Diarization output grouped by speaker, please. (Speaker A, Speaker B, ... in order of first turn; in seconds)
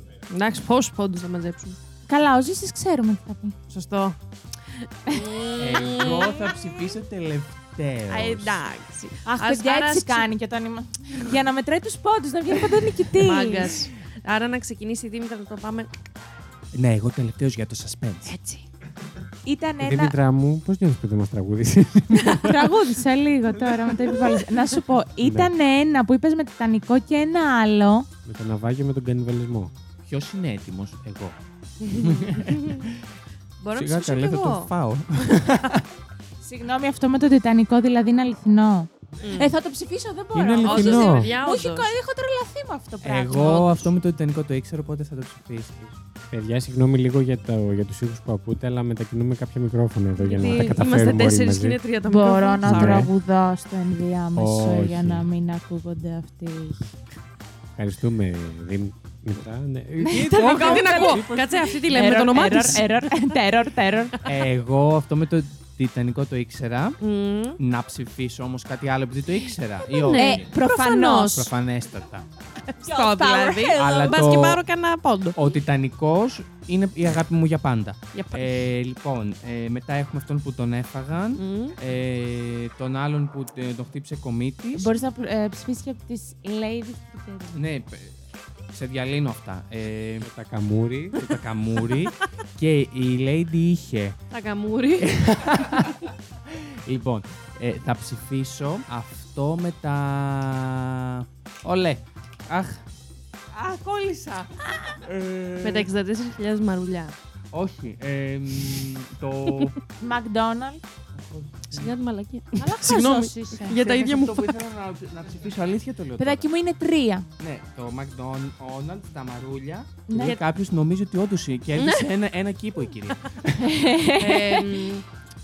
Speaker A: 0.3-1.8, 3.7-6.5, 8.1-10.3, 12.7-15.9, 18.3-18.6, 22.3-22.6, 31.8-32.9, 33.6-34.7, 39.2-39.5, 40.6-41.9, 50.2-53.1, 60.4-62.9, 67.0-67.6, 69.8-71.5, 72.7-75.4, 78.1-78.6, 81.4-81.8, 94.3-95.2, 105.6-107.2, 111.7-114.6, 120.2-120.5, 121.8-122.1, 124.2-125.0
Speaker B: 2.1-3.6, 5.1-6.5, 9.2-13.8, 19.4-20.1, 22.3-28.1, 36.4-43.9, 52.0-57.0, 60.0-64.3, 70.1-71.5, 72.8-74.3, 84.8-87.6, 110.0-110.8, 112.6-113.8, 116.2-117.3, 120.1-120.4, 123.6-124.8
Speaker C: 5.6-8.6, 16.7-18.3, 30.0-31.4, 31.9-33.0, 33.8-35.9, 43.0-46.0, 64.2-67.0, 67.6-70.5, 71.3-72.3, 73.8-74.6, 75.3-84.9, 87.5-88.2, 88.7-90.3, 91.2-94.2, 95.0-102.8, 103.5-105.9, 107.5-109.8, 111.1-111.9, 113.7-116.5, 117.4-123.7
Speaker D: 19.8-22.5, 25.2-25.5, 28.2-29.7, 40.3-41.3, 46.3-51.8, 52.6-53.1, 54.4-55.3, 57.8-61.7, 90.2-91.4